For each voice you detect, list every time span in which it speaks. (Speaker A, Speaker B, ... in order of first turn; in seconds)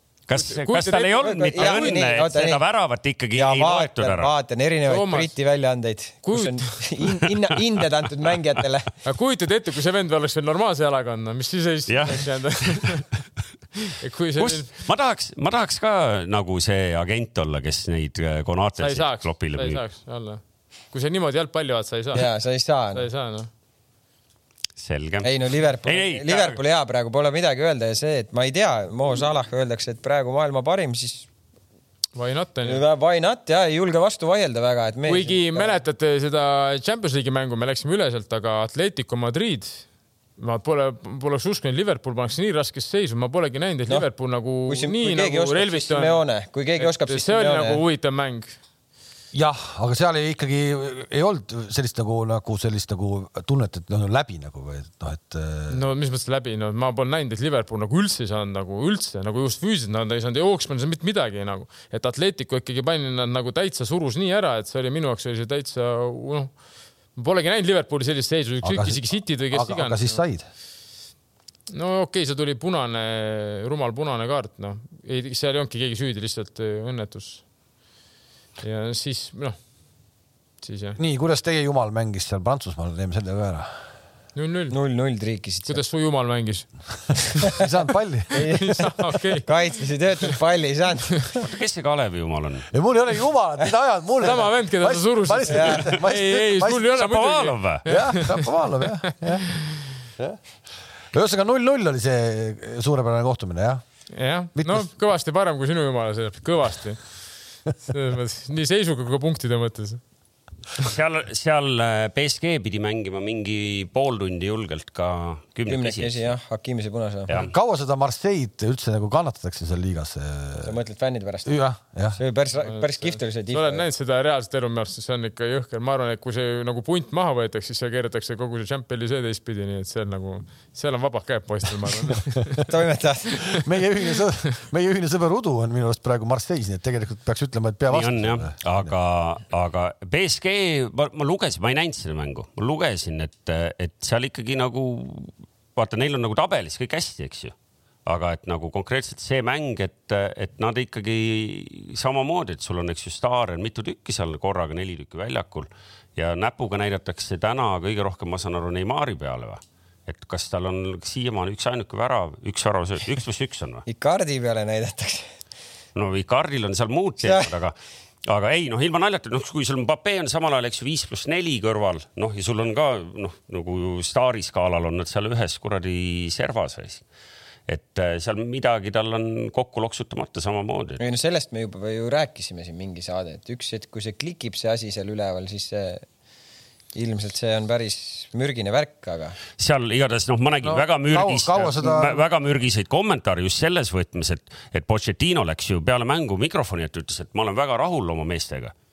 Speaker A: 0.3-4.3, 11.9-13.1, 14.4-19.8, 24.8-26.6, 91.4-92.7, 96.9-97.9, 110.8-116.3, 137.9-147.5, 148.1-163.8, 165.9-167.8, 168.3-177.0, 177.7-181.0, 189.6-198.7
Speaker B: 0.4-2.0, 4.9-5.3, 6.2-6.8, 9.1-13.1, 13.9-14.7, 18.8-22.3, 22.9-23.5, 32.1-32.8, 35.1-46.2, 46.8-48.6, 55.7-66.6, 67.2-70.2, 71.7-77.5, 78.6-79.6, 80.6-81.0, 84.3-84.8, 85.7-87.6, 88.4-89.6, 94.2-99.4, 104.1-110.0, 122.6-132.7
Speaker C: 1.2-2.6, 3.4-8.9, 22.1-23.1, 25.2-31.3, 32.6-35.8, 44.7-47.8, 84.7-85.8, 88.3-91.3, 95.5-95.8, 115.7-117.3, 120.6-121.5, 122.2-123.8, 132.7-133.6, 163.9-165.3, 167.2-167.5, 181.0-186.1, 186.9-189.4
Speaker D: 49.3-55.8, 68.6-70.4, 81.0-83.7, 87.5-88.6, 92.7-96.9, 97.9-99.5, 101.1-103.8, 104.5-104.9, 117.3-120.8, 121.5-122.2, 133.4-138.9, 190.6-192.2